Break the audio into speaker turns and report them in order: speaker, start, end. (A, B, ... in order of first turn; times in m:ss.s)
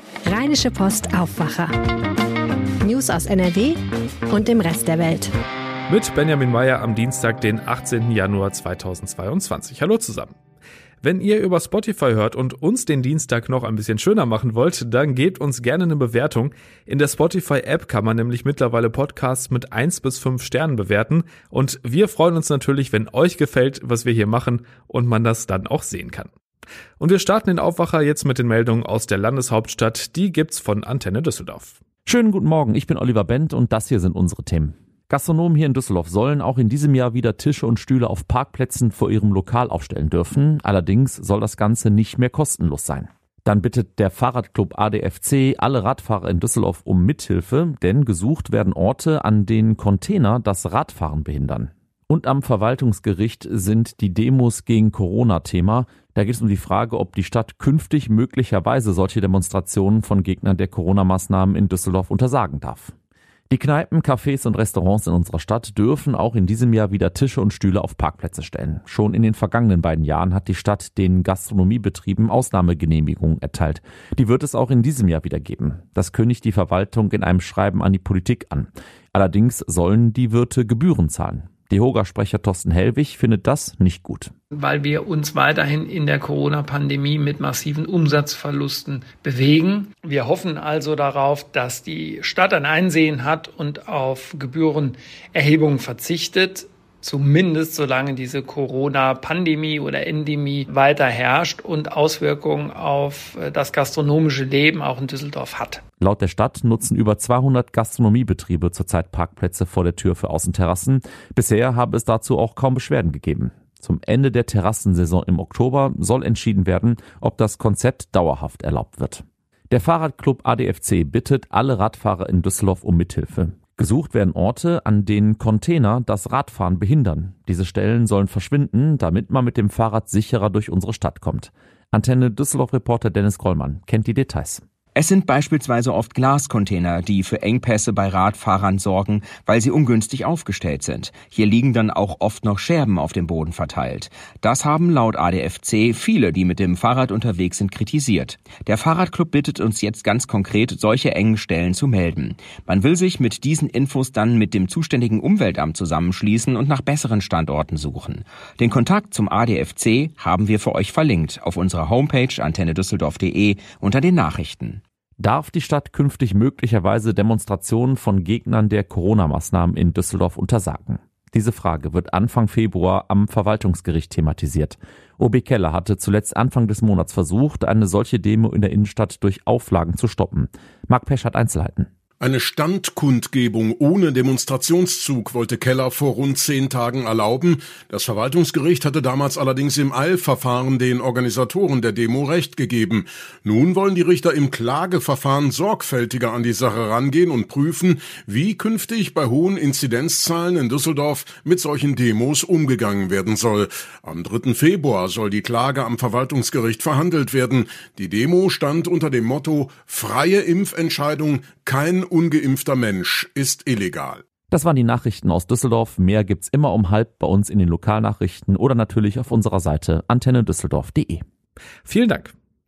0:00.2-0:02.1 A
0:02.8-0:03.8 A
0:04.3-0:05.3 A
0:05.9-0:10.4 B
0:11.0-0:26.3 B
0:27.0-0:31.8 B
0:32.0-1:02.9 C
1:03.5-1:24.3 C
1:24.5-1:45.8 D
1:46.0-2:14.6 C
2:15.0-2:44.8 E
2:45.2-3:01.9 C
3:02.2-3:34.2 F
3:34.5-3:41.2 C
3:41.8-3:42.3 B